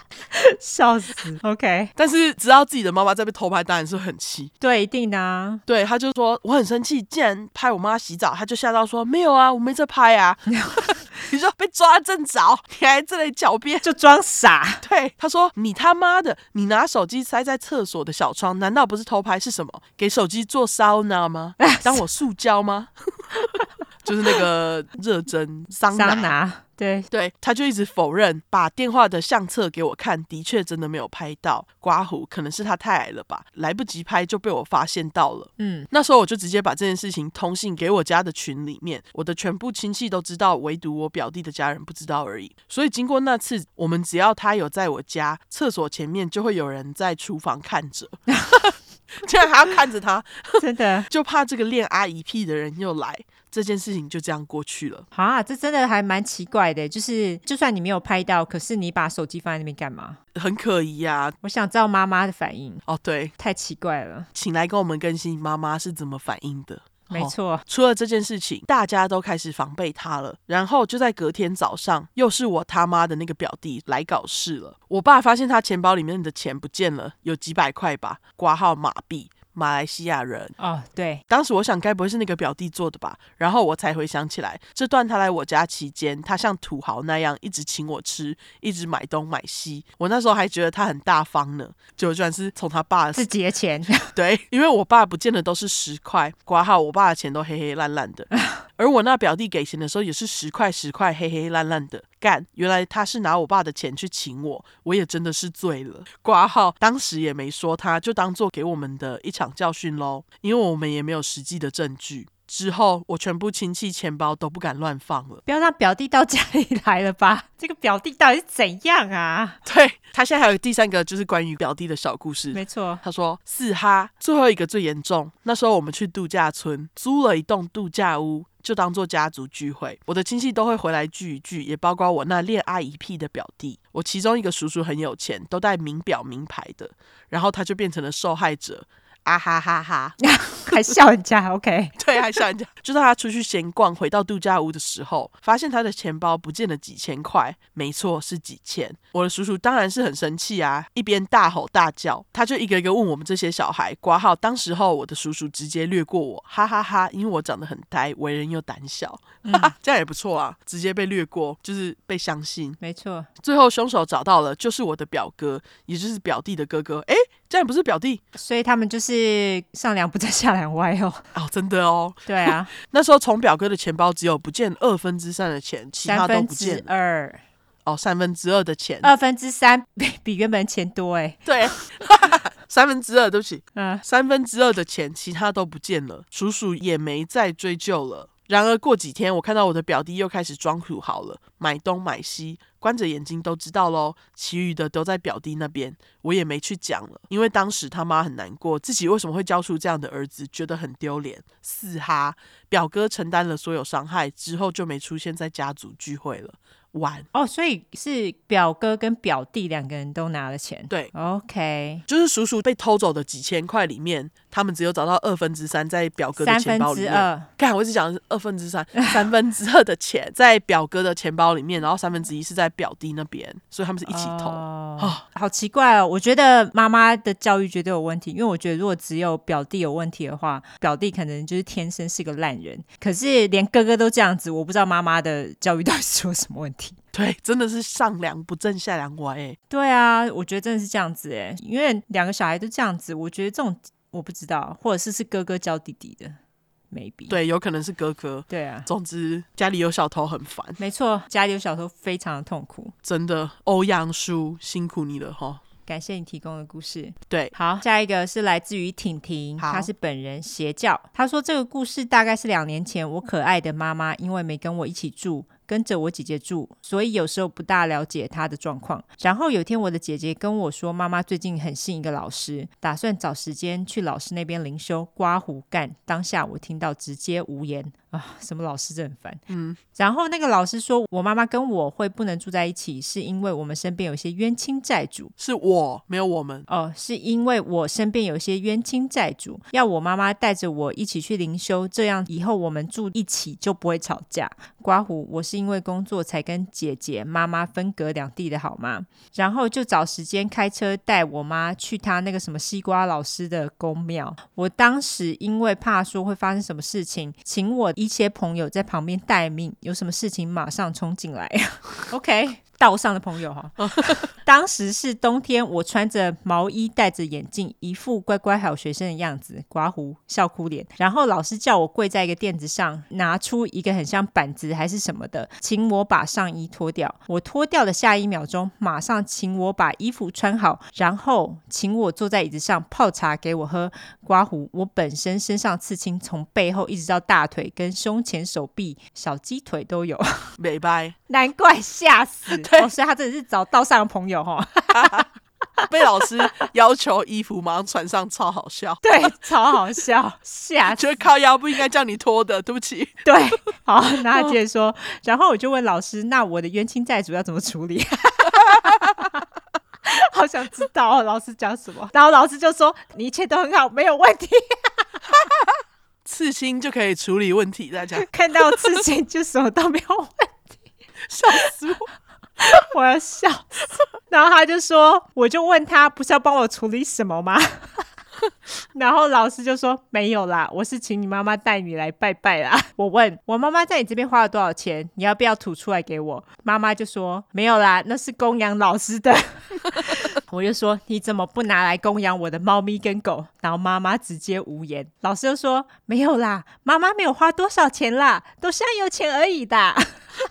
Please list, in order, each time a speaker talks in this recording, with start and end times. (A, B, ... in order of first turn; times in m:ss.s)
0:00.3-0:01.9 A
0:02.0-0:04.5 B
0:04.6-0:05.6 A
0:05.7-0:13.8 B
0:13.8-0:14.8 A
0:14.8-0:23.2 B
0:21.6-0:22.0 A
0:24.0-0:26.3 B
0:25.9-0:27.1 A
0:27.1-0:55.0 B
0:35.6-0:35.9 A
0:50.6-0:51.1 A
0:55.1-1:00.2 A
1:00.3-1:01.3 B
1:01.4-1:02.8 A
1:02.9-1:03.3 B
1:03.4-1:04.3 A
1:04.3-1:20.5 B
1:07.1-1:07.6 A
1:20.6-1:21.2 A
1:21.3-1:33.2 B
1:33.1-1:34.1 A
1:34.1-1:55.4 B
1:38.3-1:38.6 A
1:55.4-1:59.6 A
1:59.6-2:20.9 B
2:02.5-2:03.0 A
2:20.2-2:22.0 A
2:22.0-2:42.8 B
2:39.4-2:39.7 A
2:42.8-2:43.3 A
2:43.4-2:48.2 B
2:48.4-2:51.2 A
2:51.3-2:56.9 B
2:52.2-2:52.7 A
2:56.0-2:57.4 A
2:57.8-2:59.1 B
2:59.0-3:01.9 A
3:01.4-3:27.3 B
3:03.7-3:04.0 A
3:27.3-3:32.0 A
3:32.1-3:45.2 B
3:36.4-3:37.5 A
3:44.0-3:57.0 A
3:57.1-3:59.6 B
3:59.7-4:06.4 A
4:06.9-4:07.4 A
4:07.3-4:10.8 B
4:08.5-4:08.9 A
4:10.8-4:12.9 A
4:13.0-4:15.6 B
4:15.8-4:39.4 A
4:19.6-4:19.9 B
4:39.5-4:39.8 B
4:39.9-4:45.3 A
4:45.4-4:46.6 B
4:46.7-5:40.5 A
5:13.8-5:14.2 B
5:40.6-5:41.1 B
5:41.3-5:45.3 A
5:42.5-5:42.9 B
5:44.9-5:45.2 B
5:45.9-5:49.0 B
5:49.0-5:51.3 A
5:50.9-5:53.2 B
5:53.2-5:59.3 A
6:00.0-6:05.2 A
6:06.2-6:08.8 B
6:08.2-6:10.8 A
6:11.3-6:12.1 B
6:12.6-6:18.0 A
6:18.9-6:40.3 A